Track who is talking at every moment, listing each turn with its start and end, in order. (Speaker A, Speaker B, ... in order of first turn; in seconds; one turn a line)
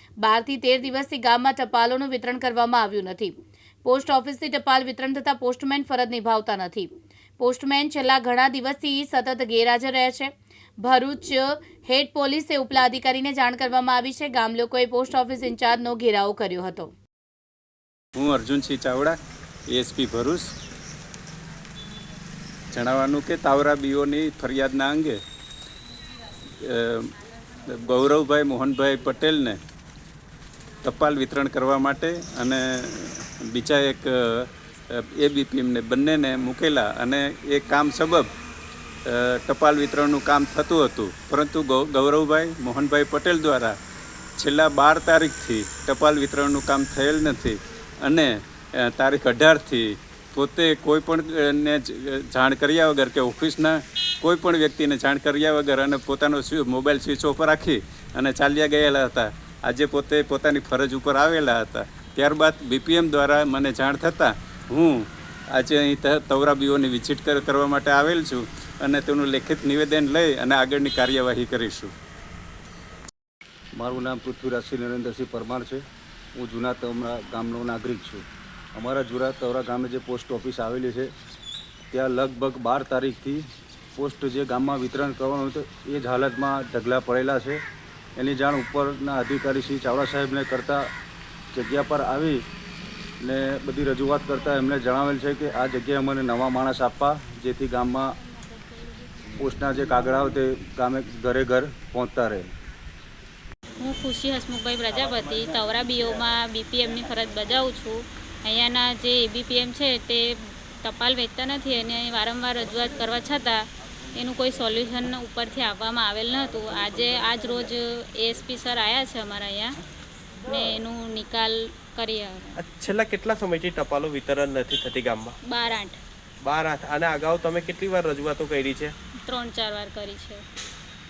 Speaker A: 0.2-3.3
Speaker A: 3.8-16.9
Speaker B: 18.1-20.5
Speaker B: 22.7-25.2
Speaker B: 26.6-27.1
Speaker B: 27.6-29.6
Speaker B: 30.8-38.3
Speaker B: 39.0-43.7
Speaker B: 44.4-71.9
Speaker C: 73.7-75.8
Speaker C: 76.3-78.2
Speaker C: 78.7-81.1
Speaker C: 81.9-83.4
Speaker C: 84.0-87.6
Speaker C: 88.2-90.9
Speaker C: 91.5-92.4
Speaker C: 93.2-98.1
Speaker C: 99.4-102.5
Speaker D: 103.8-113.6
Speaker D: 114.1-119.8
Speaker D: 120.4-122.5
Speaker E: 122.5-125.4
Speaker D: 125.5-126.0
Speaker E: 126.4-128.9
Speaker D: 129.2-130.4